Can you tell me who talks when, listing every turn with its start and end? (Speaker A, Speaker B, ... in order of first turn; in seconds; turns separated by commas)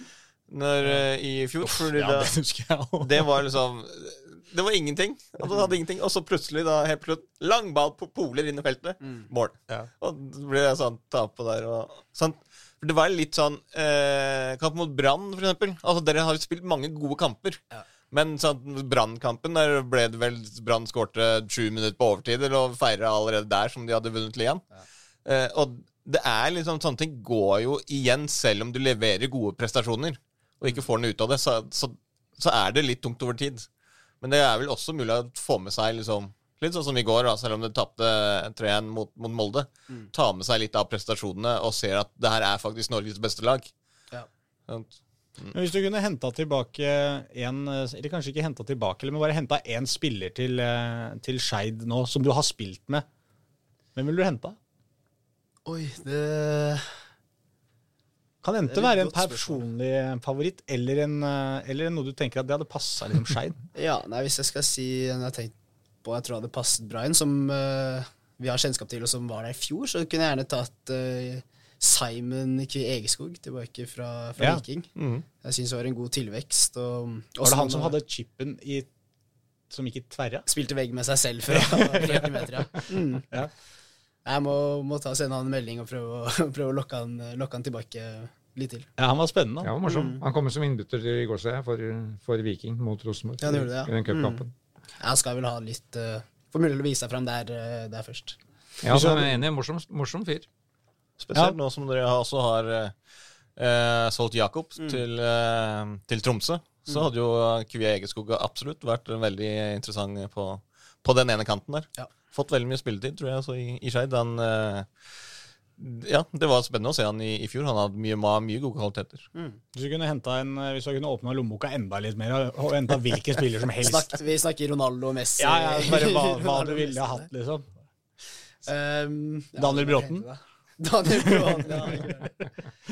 Speaker A: 0.5-2.3, Speaker B: 1.6-3.2, Speaker A: 3.0-24.6, Speaker C: 9.0-9.3, Speaker A: 25.2-33.7, Speaker A: 34.2-43.7, Speaker A: 44.7-45.6, Speaker B: 45.5-53.0, Speaker B: 54.0-54.6, Speaker C: 55.6-56.9, Speaker B: 58.4-63.6, Speaker C: 58.7-59.6, Speaker C: 63.8-77.9, Speaker A: 75.0-75.3, Speaker B: 77.4-78.9, Speaker B: 79.7-80.5, Speaker C: 80.5-83.3, Speaker B: 81.5-82.6, Speaker C: 84.2-88.9, Speaker B: 89.0-89.7, Speaker D: 89.6-94.5, Speaker C: 89.8-90.2, Speaker C: 93.4-94.4, Speaker C: 95.0-98.4, Speaker D: 98.8-100.5, Speaker B: 98.8-99.4, Speaker A: 101.2-102.9, Speaker A: 103.6-114.9, Speaker A: 115.8-119.3, Speaker C: 119.3-119.6, Speaker B: 119.7-124.2, Speaker C: 123.8-127.3, Speaker B: 125.4-127.7, Speaker C: 128.6-132.3, Speaker B: 129.6-130.3, Speaker B: 131.1-131.7